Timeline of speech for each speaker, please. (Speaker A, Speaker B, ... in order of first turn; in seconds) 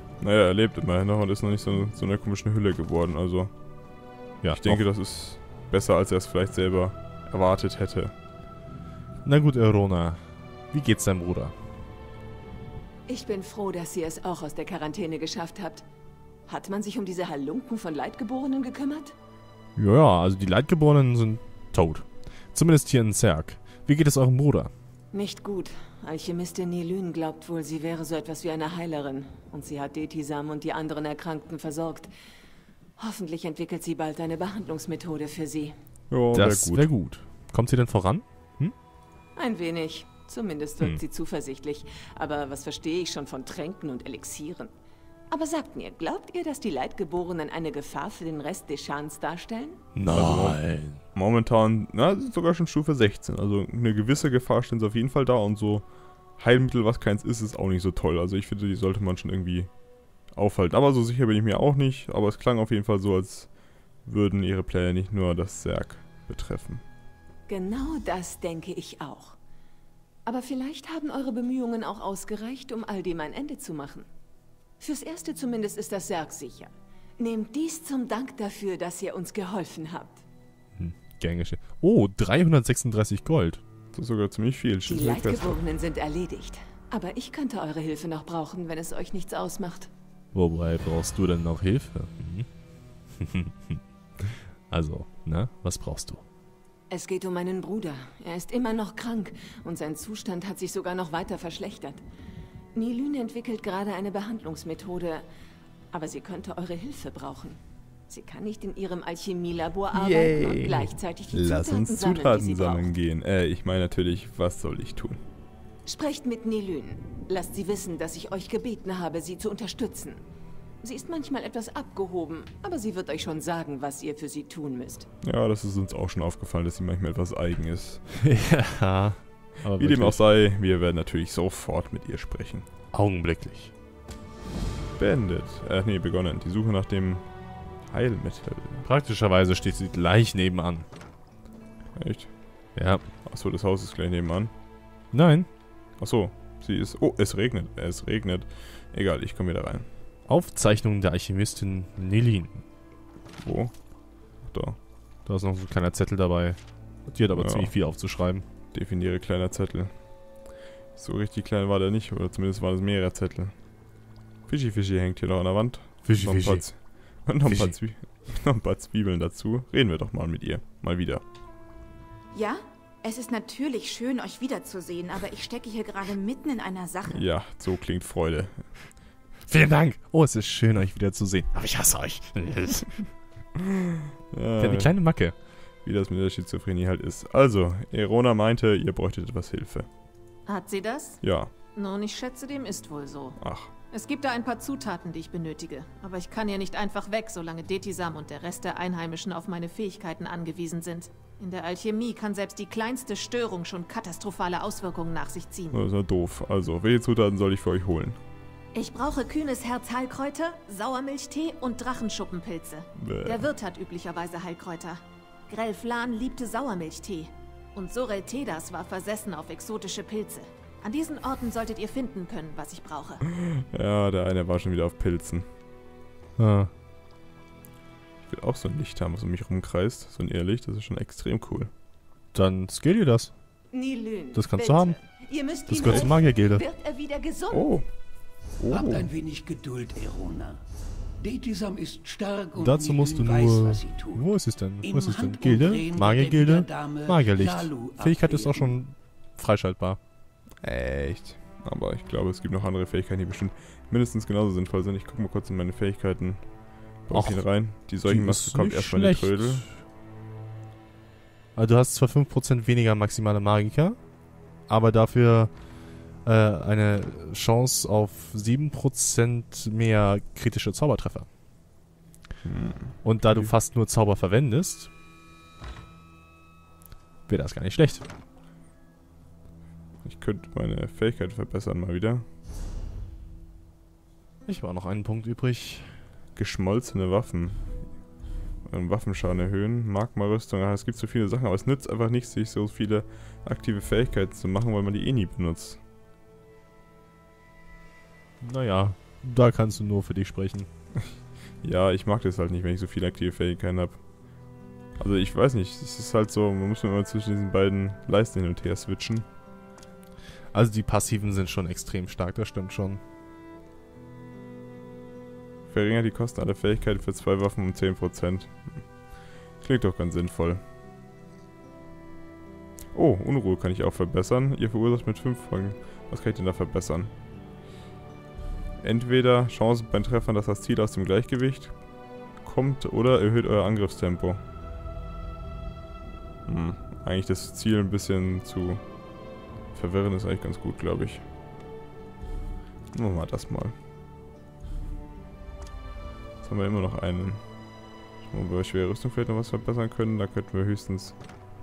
Speaker A: 0.2-8.1, 36.1-36.9, 50.1-59.7, 60.3-66.8, 83.9-85.6, 109.9-115.2, 125.2-128.0, 129.8-132.7, 135.0-138.8, 142.0-142.4, 143.2-144.5, 146.0-149.9, 153.4-153.8, 154.4-154.8, 157.4-157.7, 158.7-160.0, 161.0-163.6, 164.5-171.2, 177.1-178.8, 184.3-185.0, 185.8-189.9, 191.2-191.5, 193.4-193.7, 205.7-208.2, 213.0-213.5, 223.5-225.5, 228.3-231.7, 237.5-239.1, 250.6-259.7, 272.4-273.5, 280.0-282.3, 286.4-288.0, 288.6-295.8, 301.6-304.0, 305.0-309.3, 315.7-320.6, 322.9-327.1, 328.8-331.8, 332.3-334.4, 336.4-339.1, 339.7-341.3, 342.9-343.8, 346.4-347.7, 348.2-351.2
Speaker B: 4.4-4.8, 9.2-11.5, 19.8-24.7, 36.3-38.7, 50.0-51.0, 80.8-83.6, 90.3-92.5, 93.1-96.2, 128.2-130.2, 132.9-133.7, 138.8-140.9, 142.8-143.0, 145.1-145.5, 150.3-152.6, 155.3-158.4, 166.0-167.7, 179.5-183.0, 184.6-185.3, 226.4-226.7, 232.3-233.3, 234.3-235.0, 235.7-236.6, 242.6-250.0, 257.1-259.8, 261.6-264.1, 264.7-265.7, 266.2-271.3, 273.0-274.9, 277.3-278.1, 284.5-286.0, 298.4-300.7, 310.5-313.0
Speaker C: 13.1-15.8, 16.5-19.1, 25.1-32.1, 33.0-35.8, 39.4-44.7, 45.3-49.8, 67.5-69.4, 70.3-74.1, 74.8-80.2, 84.9-89.9, 96.9-102.0, 102.8-105.2, 105.9-112.9, 115.9-120.2, 120.8-125.1, 233.7-237.7
Speaker D: 172.3-177.2
Speaker E: 190.5-205.8, 208.7-223.2
Speaker F: 238.7-240.6, 241.2-248.8